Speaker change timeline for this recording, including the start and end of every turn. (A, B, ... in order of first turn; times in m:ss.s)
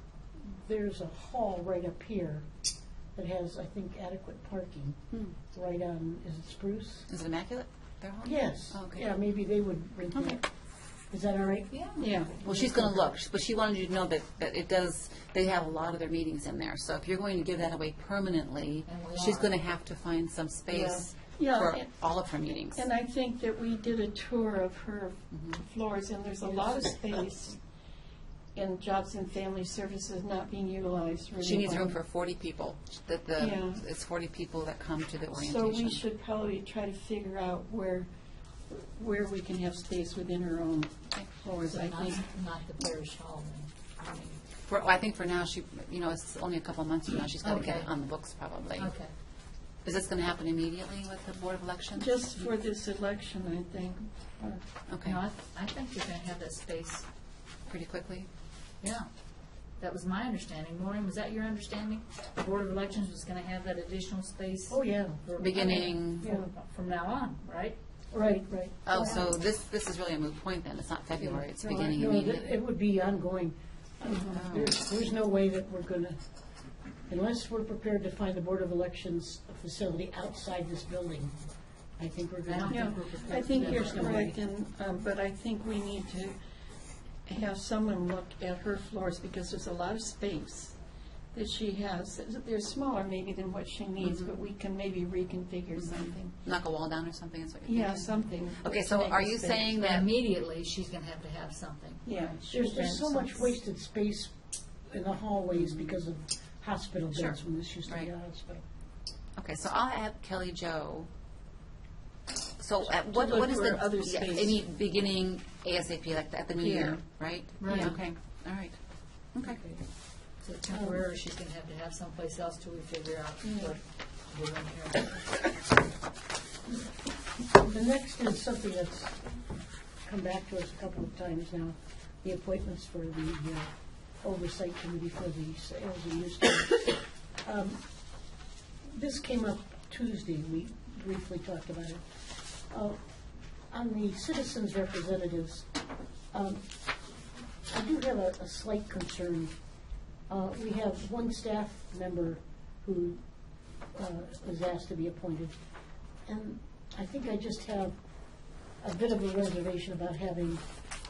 0:00.4-0:02.4 A
0:03.2-0:07.0 A
0:07.1-0:09.1 B
0:08.2-0:10.5 A
0:10.1-0:10.4 B
0:11.1-0:11.7 A
0:11.7-0:12.2 C
0:12.0-0:12.4 D
0:12.4-0:22.8 B
0:12.4-0:13.0 A
0:18.8-0:19.6 C
0:20.7-0:21.9 D
0:22.7-0:27.6 D
0:25.3-0:25.6 B
0:26.5-0:26.9 A
0:28.5-0:32.0 D
0:31.4-0:36.0 B
0:33.4-0:33.8 D
0:35.3-0:38.1 D
0:38.7-0:42.2 D
0:41.5-0:44.4 C
0:44.6-0:48.9 B
0:47.4-0:47.9 C
0:48.8-0:49.1 C
0:49.8-0:52.2 B
0:52.0-0:54.6 D
0:54.9-0:55.2 B
0:55.0-0:57.0 C
0:57.7-0:58.3 B
0:58.8-0:59.1 C
0:59.8-1:07.8 C
1:04.7-1:05.2 A
1:05.4-1:06.3 B
1:08.1-1:09.2 A
1:08.8-1:12.5 B
1:11.2-1:16.2 A
1:14.3-1:14.7 B
1:17.1-1:21.3 A
1:22.0-1:24.4 A
1:22.4-1:24.3 C
1:22.7-1:26.4 D
1:27.2-1:30.8 D
1:31.3-1:36.3 D
1:35.8-1:40.1 B
1:37.7-1:39.9 D
1:39.8-1:43.5 C
1:42.0-1:42.4 D
1:42.5-1:44.3 A
1:44.9-1:48.6 A
1:47.1-1:48.1 B
1:49.4-1:51.1 B
1:52.6-1:58.8 B
1:52.8-1:54.7 D
1:56.6-1:57.0 D
1:57.6-1:58.0 C
1:59.3-1:59.6 B
1:59.4-1:59.8 A
2:00.4-2:05.4 C
2:00.7-2:01.0 A
2:07.5-2:09.2 A
2:10.0-2:13.7 A
2:14.2-2:17.8 A
2:18.9-2:22.0 A
2:22.7-2:23.0 A
2:23.7-2:25.7 A
2:26.3-2:26.6 A
2:27.7-2:29.5 A
2:30.3-2:33.2 A
2:33.9-2:35.5 A
2:36.2-2:38.0 A
2:38.8-2:40.6 A